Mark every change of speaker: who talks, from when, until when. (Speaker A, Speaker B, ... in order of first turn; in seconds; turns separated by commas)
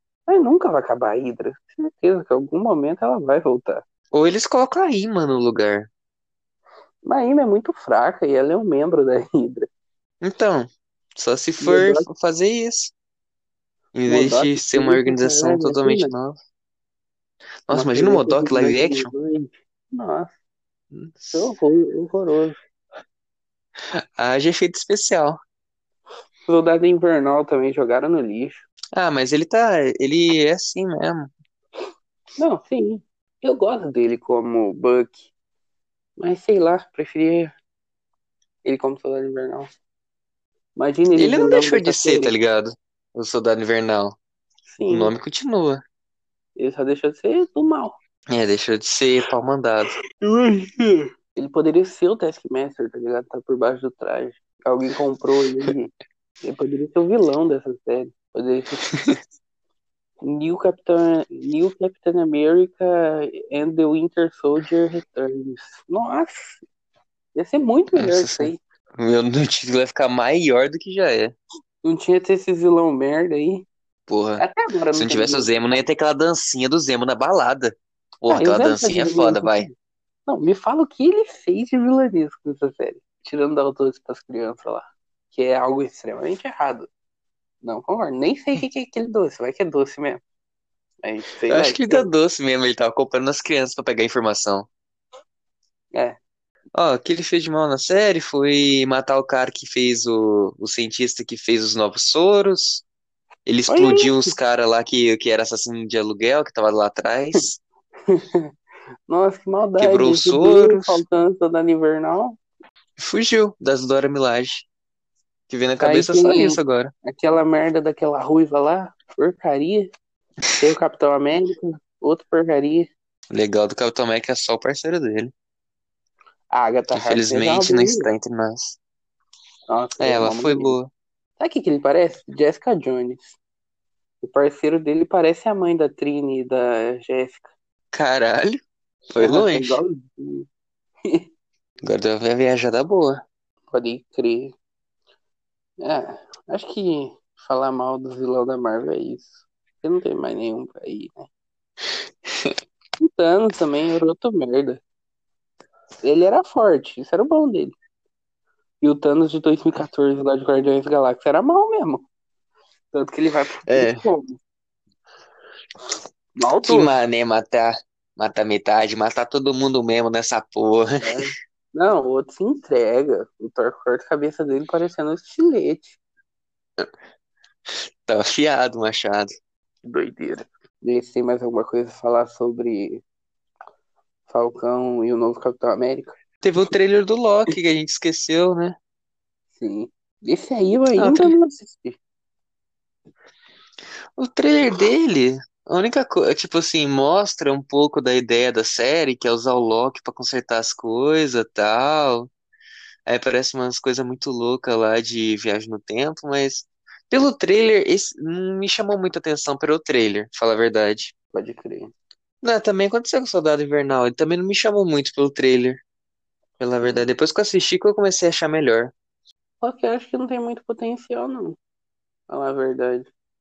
Speaker A: 0.3-3.8, Speaker B: 4.1-5.9, Speaker A: 7.1-9.7, Speaker B: 10.2-12.9, Speaker A: 11.6-12.1, Speaker B: 13.9-16.4, Speaker A: 14.1-16.1, Speaker B: 17.7-19.1, Speaker A: 17.7-20.3, Speaker B: 20.9-21.5, Speaker A: 21.3-22.6, Speaker B: 23.8-25.4, Speaker A: 26.5-28.6, Speaker B: 28.9-31.3, Speaker A: 32.4-35.3, Speaker A: 36.2-37.5, Speaker A: 38.6-39.7, Speaker A: 40.8-42.3, Speaker B: 41.2-44.2, Speaker A: 44.7-45.1, Speaker B: 44.9-45.8, Speaker A: 46.6-48.0, Speaker B: 48.3-50.0, Speaker A: 50.2-55.9, Speaker A: 56.4-59.0, Speaker B: 58.9-59.2, Speaker A: 60.2-66.6, Speaker A: 67.3-68.6, Speaker B: 68.0-71.3, Speaker A: 71.8-73.7, Speaker B: 74.1-79.7, Speaker A: 74.4-75.8, Speaker A: 78.3-79.7, Speaker A: 80.3-86.9, Speaker A: 87.6-90.2, Speaker A: 91.0-92.1, Speaker B: 91.5-94.7, Speaker B: 96.7-102.8, Speaker B: 103.5-107.6, Speaker A: 103.7-104.3, Speaker A: 108.1-108.5, Speaker A: 109.1-112.4, Speaker B: 109.8-111.0, Speaker B: 113.0-114.7, Speaker B: 115.5-116.9, Speaker A: 115.8-119.9, Speaker A: 120.6-122.9, Speaker B: 123.3-125.3, Speaker A: 126.5-128.1, Speaker B: 127.0-128.8, Speaker A: 129.7-130.8, Speaker B: 130.0-130.9, Speaker A: 131.4-133.4, Speaker A: 134.2-137.5, Speaker B: 137.9-139.8, Speaker A: 139.2-140.5, Speaker B: 141.8-143.2, Speaker A: 143.7-144.6, Speaker A: 145.8-151.3, Speaker A: 153.0-154.8, Speaker A: 156.0-157.7, Speaker A: 158.8-162.1, Speaker A: 162.9-164.4, Speaker B: 163.7-164.0, Speaker A: 166.4-167.0, Speaker B: 166.7-171.3, Speaker A: 171.0-176.0, Speaker B: 178.1-179.3, Speaker A: 179.8-183.0, Speaker A: 184.3-186.8, Speaker B: 186.4-188.8, Speaker A: 189.6-192.0, Speaker B: 191.0-191.3, Speaker B: 194.2-202.3, Speaker B: 203.1-211.1, Speaker A: 211.3-211.9, Speaker B: 212.4-215.8, Speaker B: 216.6-218.9, Speaker A: 216.8-217.1, Speaker A: 219.6-221.6, Speaker A: 222.3-223.1